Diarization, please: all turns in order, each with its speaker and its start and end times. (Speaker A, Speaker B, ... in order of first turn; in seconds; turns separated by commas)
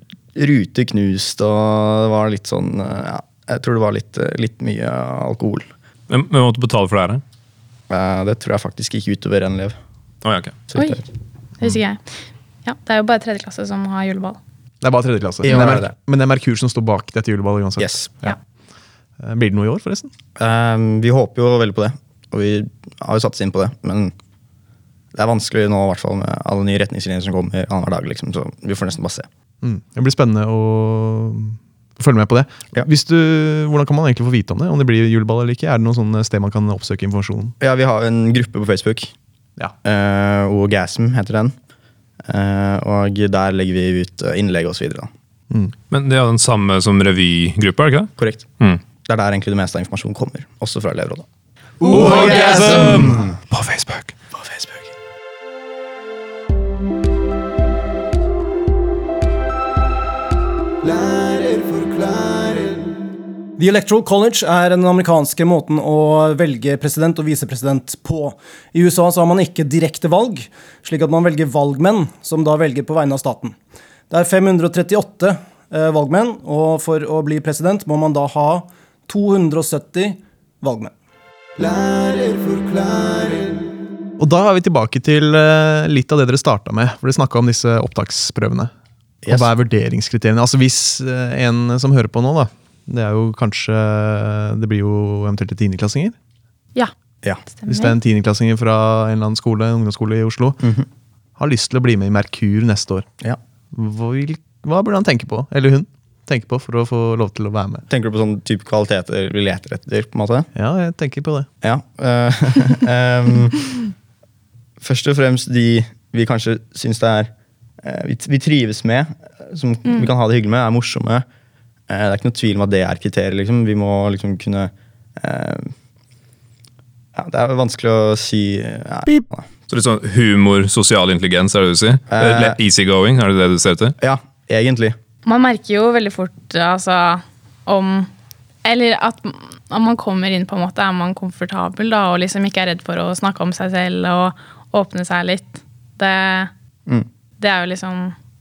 Speaker A: 0.3-5.7, Speaker B: 6.1-7.2, Speaker A: 7.9-9.8, Speaker B: 10.2-10.6, Speaker A: 10.7-11.0, Speaker C: 10.7-11.0, Speaker C: 11.6-12.0, Speaker C: 12.6-14.4, Speaker D: 14.8-18.4, Speaker A: 15.4-15.9, Speaker A: 17.8-18.2, Speaker D: 19.2-20.1, Speaker A: 20.4-24.1, Speaker A: 25.1-29.3, Speaker D: 29.6-37.5, Speaker A: 37.6-39.1, Speaker A: 39.8-41.5, Speaker A: 42.2-45.1, Speaker B: 45.9-48.8, Speaker A: 48.2-48.5, Speaker A: 49.0-51.2, Speaker B: 51.9-54.1, Speaker A: 51.9-53.2, Speaker A: 54.4-54.8, Speaker E: 60.8-62.7, Speaker E: 63.6-73.5, Speaker E: 74.1-80.9, Speaker E: 81.6-83.6, Speaker D: 84.2-88.7, Speaker A: 89.2-89.5, Speaker D: 89.3-96.1, Speaker C: 97.5-98.0, Speaker D: 97.7-100.6, Speaker A: 100.6-100.8, Speaker D: 101.4-103.0, Speaker D: 103.7-107.8, Speaker A: 107.9-110.5, Speaker D: 110.5-111.5, Speaker A: 111.6-113.6, Speaker A: 114.8-121.2, Speaker A: 121.9-125.7, Speaker A: 127.1-129.4, Speaker B: 129.7-133.9, Speaker A: 132.1-132.6, Speaker A: 134.0-134.9, Speaker C: 135.2-138.1, Speaker C: 138.6-146.5, Speaker C: 147.4-148.1